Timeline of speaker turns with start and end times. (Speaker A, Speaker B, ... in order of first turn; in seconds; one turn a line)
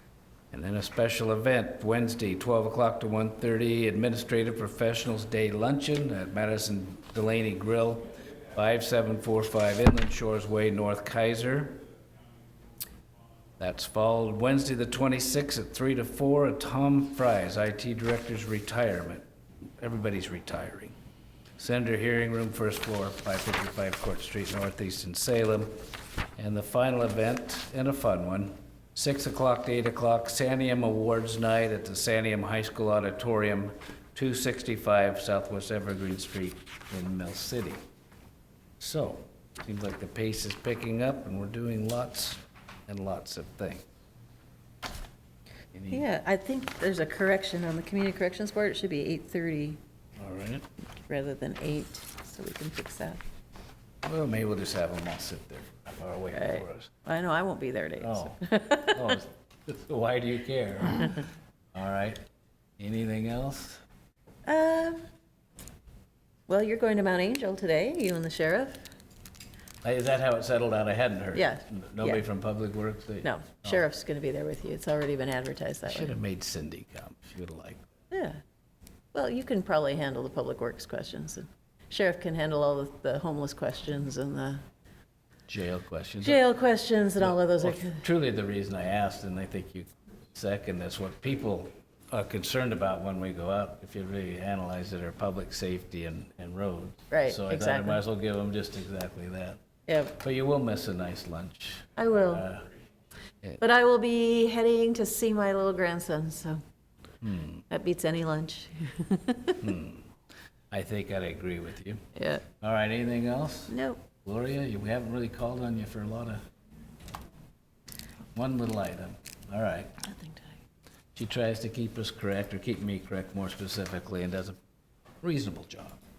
Speaker A: 0.5-11.8
Speaker A: 13.6-19.2
Speaker A: 19.8-20.9
Speaker A: 21.6-25.8
Speaker A: 26.4-37.8
Speaker A: 38.8-43.8
Speaker A: 45.7-46.0
Speaker B: 45.9-49.8
Speaker A: 50.2-50.7
Speaker B: 51.1-53.2
Speaker A: 54.0-56.9
Speaker B: 56.3-59.0
Speaker A: 58.0-62.2
Speaker A: 62.8-63.8
Speaker B: 64.5-65.0
Speaker B: 66.5-68.8
Speaker A: 69.8-73.8
Speaker B: 71.3-72.2
Speaker B: 73.2-76.1
Speaker A: 75.9-77.8
Speaker B: 78.1-78.4
Speaker B: 79.1-84.6
Speaker A: 85.5-86.5
Speaker B: 86.2-88.0
Speaker A: 87.2-99.6
Speaker B: 97.1-98.0
Speaker B: 99.9-100.2
Speaker A: 100.1-102.7
Speaker B: 102.0-102.5
Speaker B: 103.6-106.6
Speaker A: 107.2-107.7
Speaker B: 107.7-109.6
Speaker A: 109.6-110.1
Speaker A: 110.7-116.4
Speaker B: 112.2-112.4
Speaker B: 113.7-114.0
Speaker A: 118.3-120.0
Speaker B: 120.0-120.5
Speaker A: 121.2-124.6
Speaker A: 125.2-126.0